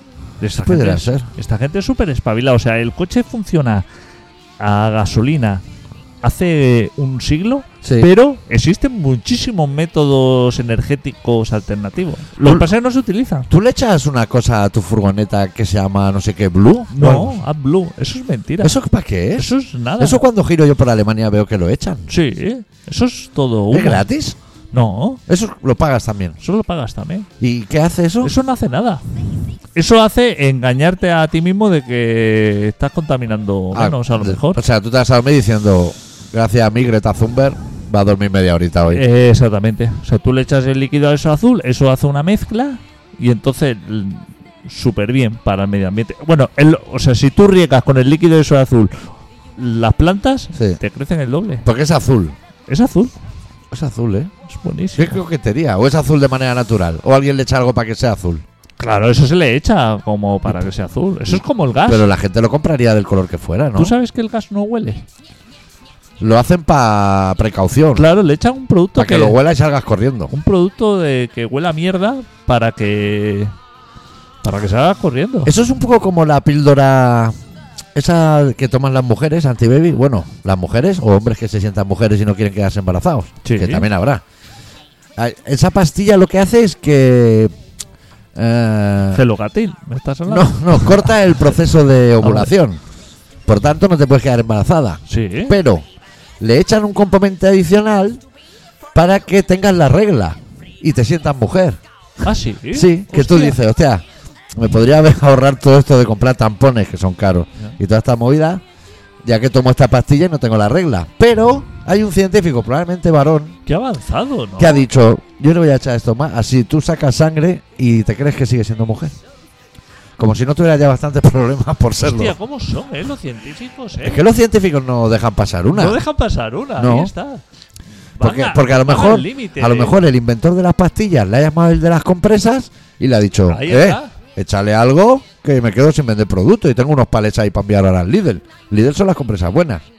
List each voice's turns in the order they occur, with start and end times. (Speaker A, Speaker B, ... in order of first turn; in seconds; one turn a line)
Speaker A: 0.4-3.8
Speaker B: 0.6-1.3
Speaker A: 4.6-5.6
Speaker A: 6.2-13.5
Speaker B: 7.8-8.1
Speaker B: 12.4-12.7
Speaker B: 13.5-17.4
Speaker A: 16.9-18.8
Speaker B: 18.6-22.1
Speaker A: 19.4-20.2
Speaker A: 22.1-24.0
Speaker B: 23.7-24.4
Speaker A: 24.7-25.2
Speaker B: 25.3-26.4
Speaker A: 26.4-27.3
Speaker B: 27.4-28.3
Speaker A: 28.2-29.0
Speaker A: 29.7-34.6
Speaker B: 33.7-39.0
Speaker A: 38.9-51.6
Speaker B: 50.5-50.8
Speaker B: 51.6-52.4
Speaker A: 52.7-53.1
Speaker B: 53.7-54.3
Speaker A: 54.5-55.2
Speaker B: 55.0-58.4
Speaker A: 58.8-62.1
Speaker B: 61.3-63.9
Speaker A: 63.8-65.0
Speaker B: 66.2-68.0
Speaker A: 67.9-69.3
Speaker B: 69.0-70.3
Speaker A: 70.3-73.5
Speaker A: 74.4-75.5
Speaker B: 75.5-77.3
Speaker B: 77.9-84.2
Speaker A: 83.4-83.9
Speaker B: 85.2-87.5
Speaker B: 88.3-89.2
Speaker A: 89.1-91.2
Speaker B: 90.3-92.8
Speaker A: 92.2-92.5
Speaker B: 93.5-95.8
Speaker A: 95.1-95.5
Speaker B: 96.4-98.2
Speaker B: 98.9-101.8
Speaker A: 102.2-103.6
Speaker B: 102.7-108.6
Speaker B: 109.2-113.5
Speaker A: 113.7-114.8
Speaker B: 114.6-119.1
Speaker B: 120.2-122.3
Speaker A: 122.0-124.2
Speaker B: 124.0-126.0
Speaker A: 125.7-127.4
Speaker B: 126.8-127.1
Speaker A: 128.2-130.0
Speaker B: 128.2-139.8
Speaker A: 133.5-134.1